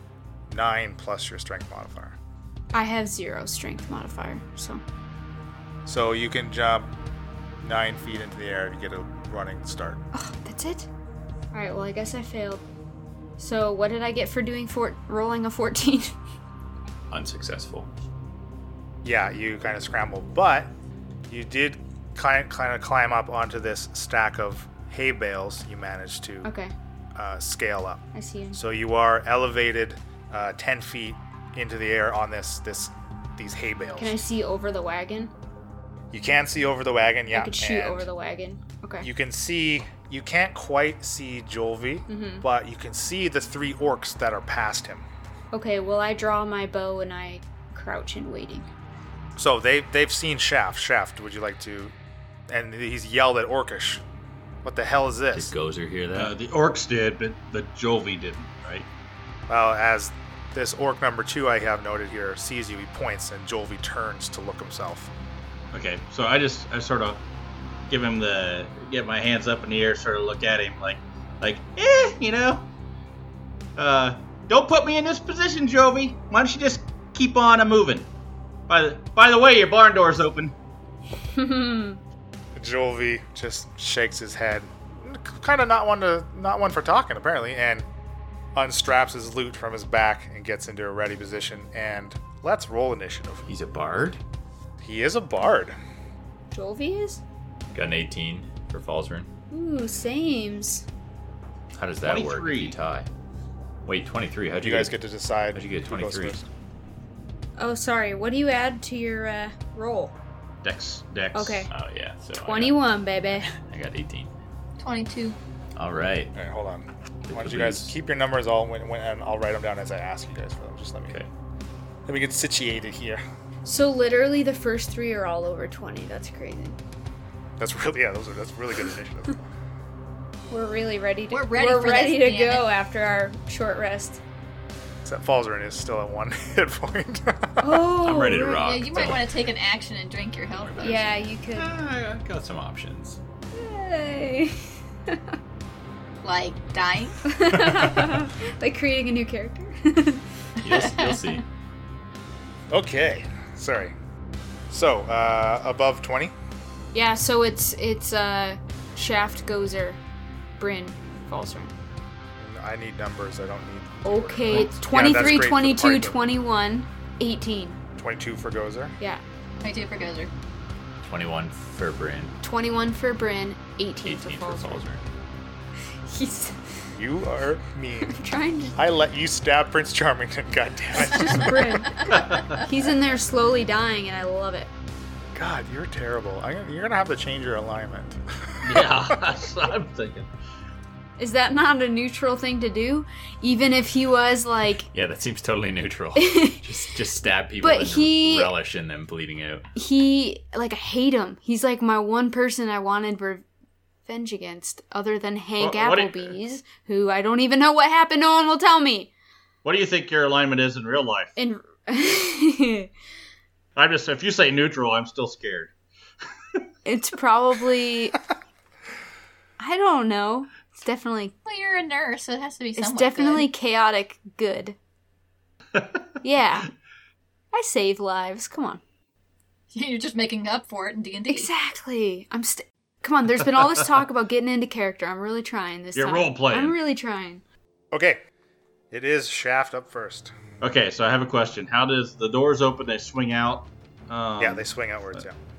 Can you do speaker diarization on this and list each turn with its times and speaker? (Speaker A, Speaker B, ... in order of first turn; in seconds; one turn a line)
Speaker A: 0.5-2.2
Speaker B: 2.7-4.8
Speaker A: 5.8-6.9
Speaker A: 7.6-10.0
Speaker B: 10.1-10.9
Speaker B: 11.5-12.6
Speaker B: 13.4-16.1
Speaker C: 17.1-17.9
Speaker A: 19.0-20.7
Speaker A: 21.3-26.5
Speaker B: 26.4-26.7
Speaker A: 27.1-28.0
Speaker B: 28.1-28.6
Speaker A: 28.5-34.2
Speaker B: 34.0-35.3
Speaker A: 36.1-38.1
Speaker B: 37.3-39.1
Speaker A: 39.0-45.0
Speaker B: 42.1-42.4
Speaker B: 45.5-48.7
Speaker A: 49.4-51.9
Speaker A: 52.5-54.0
Speaker A: 54.6-55.5
Speaker C: 55.3-56.3
Speaker D: 56.1-58.9
Speaker A: 59.5-65.1
Speaker D: 65.7-67.2
Speaker D: 67.9-72.7
Speaker D: 73.8-78.1
Speaker D: 78.7-80.5
Speaker B: 81.2-82.0
Speaker A: 82.5-87.9
Speaker A: 88.5-93.5
Speaker C: 93.5-94.2
Speaker A: 94.8-95.7
Speaker B: 96.5-97.2
Speaker C: 97.7-99.3
Speaker B: 99.5-100.8
Speaker C: 101.7-103.1
Speaker D: 102.0-102.8
Speaker C: 103.8-105.0
Speaker A: 104.6-106.5
Speaker C: 105.5-106.3
Speaker B: 107.6-110.1
Speaker D: 110.6-111.7
Speaker B: 111.3-111.7
Speaker C: 111.7-114.3
Speaker B: 112.4-113.5
Speaker E: 114.8-115.4
Speaker C: 115.8-116.3
Speaker A: 116.3-121.1
Speaker C: 117.3-117.9
Speaker A: 122.1-123.2
Speaker B: 123.6-126.8
Speaker A: 127.6-129.5
Speaker B: 130.5-134.2
Speaker E: 131.3-132.7
Speaker A: 135.0-137.8
Speaker B: 137.6-138.7
Speaker C: 138.0-139.5
Speaker E: 138.6-141.0
Speaker C: 140.5-143.2
Speaker B: 140.8-141.7
Speaker B: 143.5-145.3
Speaker E: 146.2-147.3
Speaker B: 147.2-150.2
Speaker E: 150.6-151.4
Speaker C: 150.6-151.4
Speaker A: 152.7-153.9
Speaker A: 154.7-156.3
Speaker B: 156.9-160.0
Speaker B: 160.6-161.7
Speaker A: 162.4-166.2
Speaker B: 164.0-167.8
Speaker C: 165.1-165.4
Speaker A: 168.0-168.9
Speaker E: 169.6-170.3
Speaker C: 171.0-172.3
Speaker B: 172.4-174.8
Speaker C: 174.0-175.0
Speaker B: 176.0-176.7
Speaker A: 176.9-178.2
Speaker B: 178.0-178.8
Speaker A: 178.8-181.8
Speaker B: 180.9-184.7
Speaker E: 181.8-182.3
Speaker D: 182.1-182.6
Speaker A: 185.3-189.1
Speaker D: 188.6-190.3
Speaker B: 191.2-194.9
Speaker C: 194.9-199.6
Speaker B: 196.2-196.9
Speaker B: 197.6-198.5
Speaker B: 199.7-203.4
Speaker B: 204.1-209.1
Speaker D: 205.6-206.3
Speaker D: 209.6-211.3
Speaker B: 211.3-212.9
Speaker D: 213.7-215.7
Speaker B: 216.8-218.2
Speaker B: 219.6-221.3
Speaker E: 221.4-223.5
Speaker B: 222.8-224.8
Speaker D: 225.7-226.1
Speaker B: 226.2-226.7
Speaker B: 227.5-228.8
Speaker E: 229.7-231.5
Speaker B: 231.3-237.4
Speaker D: 235.9-236.8
Speaker A: 237.9-238.2
Speaker A: 238.9-240.3
Speaker D: 240.6-244.7
Speaker A: 244.4-245.4